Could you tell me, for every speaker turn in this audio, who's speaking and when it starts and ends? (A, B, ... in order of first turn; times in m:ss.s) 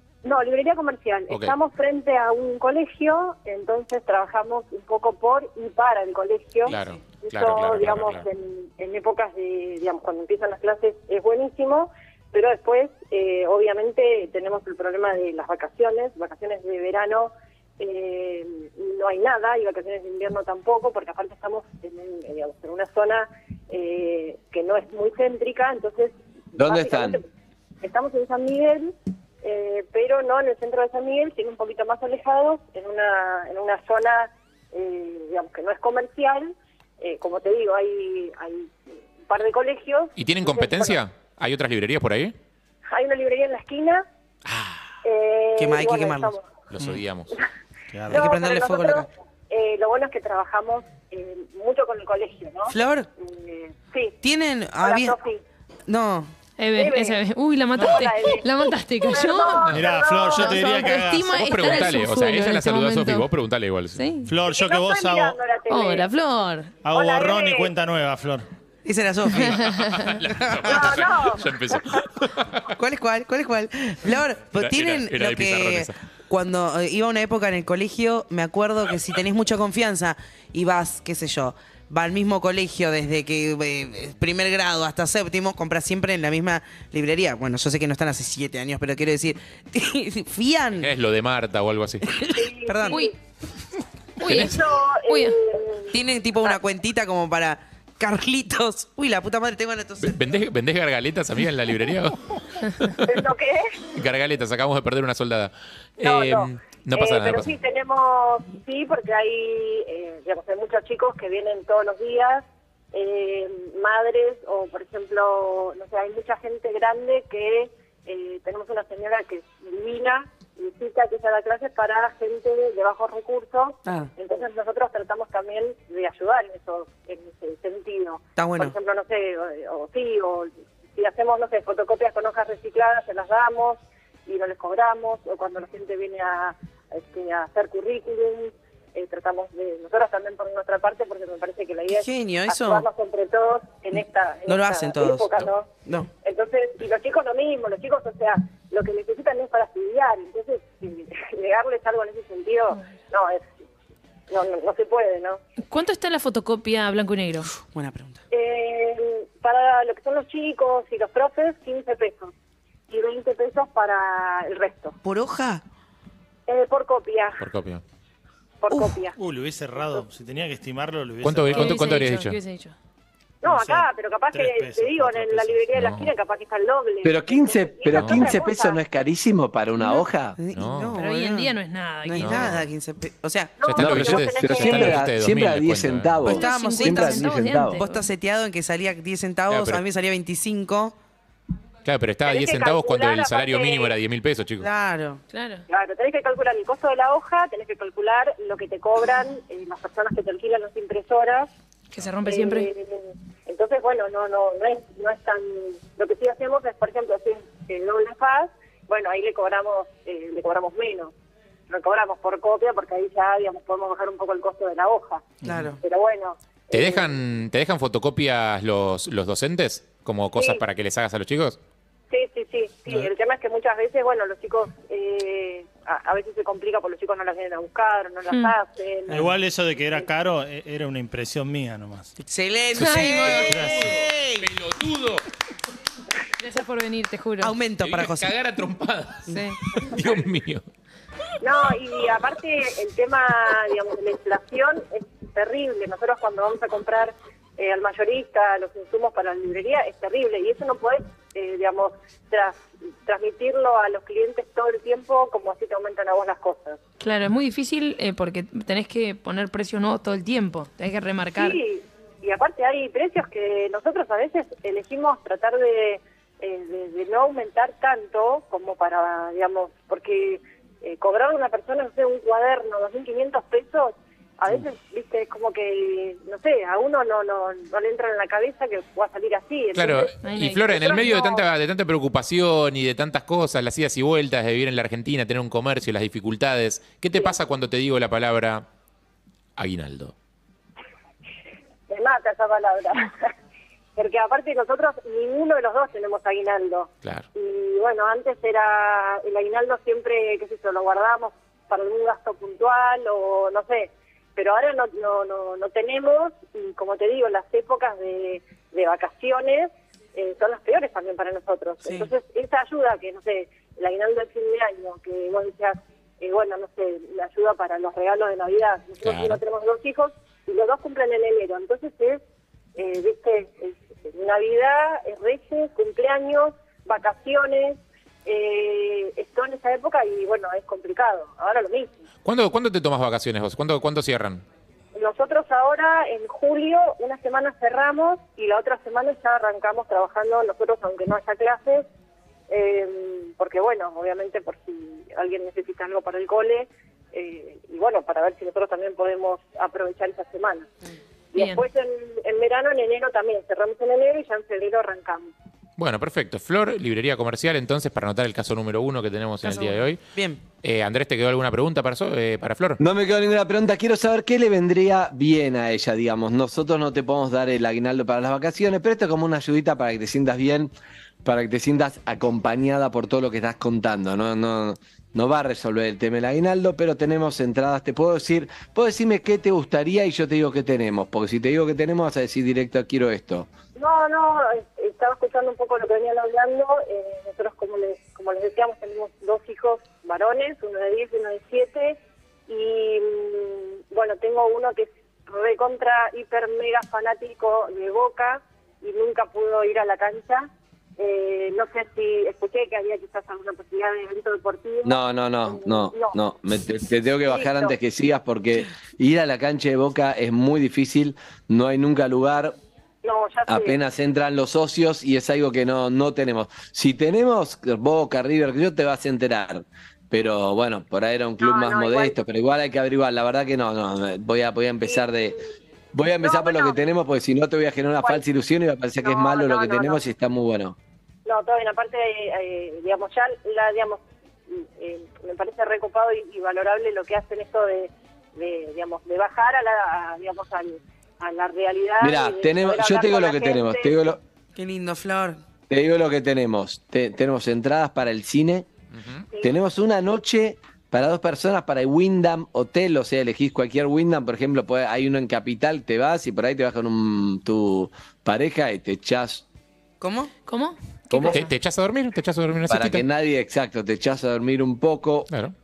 0:00.2-0:27.2 A
0:06.7-0:08.2 B
0:26.6-0:27.2 C
0:27.8-0:38.7 A
0:39.3-0:41.0 A
0:40.2-0:42.4 B
0:42.9-0:44.1 A
0:44.5-0:44.9 B
0:45.0-0:46.5 A
0:45.6-0:46.3 D
0:46.7-0:47.3 B
0:47.9-0:48.3 E
0:48.1-0:49.1 D
0:48.1-0:54.2 A
0:52.7-0:53.1 D
0:54.2-0:55.2 D
0:54.8-0:55.4 A
0:55.9-0:56.3 D
0:56.6-0:59.8 F
0:56.8-0:57.2 A
0:57.8-0:58.5 A
0:57.8-0:58.0 E
0:59.0-1:00.9 A
0:59.7-1:01.8 E
1:00.3-1:03.3 F
1:01.3-1:04.0 B
1:04.0-1:04.3 F
1:04.2-1:05.4 E
1:04.5-1:06.1 A
1:05.7-1:06.8 F
1:06.8-1:08.5 E
1:06.9-1:07.7 A
1:08.8-1:09.7 D
1:09.6-1:10.2 F
1:10.0-1:12.7 B
1:10.4-1:11.0 D
1:10.7-1:11.5 A
1:12.7-1:30.9 D
1:14.6-1:16.0 B
1:30.8-1:32.1 B
1:32.1-1:33.0 D
1:32.3-1:33.1 A
1:34.2-1:35.4 F
1:34.3-1:36.6 A
1:35.9-1:40.2 D
1:40.0-1:42.2 B
1:43.0-1:43.7 A
1:44.0-1:47.5 B
1:46.0-2:25.7 A
2:08.4-2:08.7 D
2:21.9-2:22.9 D
2:24.5-2:26.1 D
2:26.2-2:33.4 A
2:34.3-2:35.4 A
2:35.7-2:37.5 F
2:37.6-2:38.2 D
2:38.3-2:42.3 A
2:42.9-2:45.0 A
2:45.0-2:45.6 D
2:46.5-2:47.4 A
2:47.4-2:47.8 B
2:48.6-2:49.2 A
2:48.7-2:49.0 D
2:49.2-2:52.1 E
2:49.8-2:50.0 A
2:51.2-2:52.4 B
2:51.5-2:52.7 F
2:53.4-2:58.8 A
2:53.4-2:55.7 E
2:55.8-2:56.1 B
2:57.0-3:00.4 C
2:57.9-2:58.3 B
3:00.4-3:03.6 D
3:00.5-3:01.0 B
3:01.0-3:02.5 F
3:02.2-3:02.7 B
3:03.6-3:05.0 A
3:03.7-3:06.2 B
3:03.8-3:07.8 C
3:06.3-3:08.1 F
3:06.3-3:11.0 D
3:09.5-3:09.8 B
3:11.8-3:14.7 B
3:12.3-3:13.9 A
3:14.6-3:15.2 D
3:15.3-3:15.6 F
3:15.7-3:21.5 A
3:21.9-3:22.7 F
3:22.2-3:31.1 A
3:31.7-3:35.2 A
3:35.4-3:35.7 E
3:35.4-3:35.8 D
3:35.8-3:37.2 A
3:36.7-3:41.6 B
3:40.4-3:40.6 A
3:42.1-3:50.1 A
3:48.3-3:48.6 F
3:49.1-3:52.1 E
3:52.2-3:54.5 D
3:52.8-3:53.6 F
3:52.8-3:55.2 B
3:53.4-3:54.0 E
3:56.4-3:57.6 F
3:57.4-3:58.3 D
3:57.8-4:00.7 B
3:59.3-3:59.6 F
4:01.4-4:16.8 A
4:17.0-4:21.6 F
4:21.4-4:40.1 A
4:39.8-4:48.6 B
4:40.2-4:41.0 F
4:40.7-4:41.4 A
4:49.6-4:50.1 B
4:51.9-4:53.3 A
4:54.0-5:22.2 A
5:11.8-5:12.1 D
5:19.0-5:19.4 B
5:22.8-5:32.0 A
5:32.2-5:34.4 B
5:35.0-5:41.9 A
5:42.5-5:50.7 A
5:51.3-5:55.3 A
5:51.4-5:51.6 F
5:55.8-6:00.0 B
5:59.5-6:00.4 D
6:00.6-6:02.8 B
6:02.8-6:10.7 C
6:11.2-6:23.5 C
6:23.8-6:46.2 A
6:44.8-6:52.6 C
6:47.3-6:47.8 A
6:53.0-6:53.8 A
6:53.5-7:05.4 C
7:01.4-7:02.2 A
7:04.8-7:05.5 A
7:05.9-7:10.8 C
7:06.2-7:06.8 A
7:09.0-7:10.0 A
7:11.3-7:24.0 A
7:22.0-7:24.2 C
7:24.6-7:25.4 D
7:25.7-7:28.7 C
7:28.9-7:29.3 B
7:29.4-7:39.4 C
7:40.0-7:40.3 D
7:40.5-7:41.5 F
7:41.1-7:41.4 C
7:41.3-7:43.0 B
7:42.7-7:45.3 C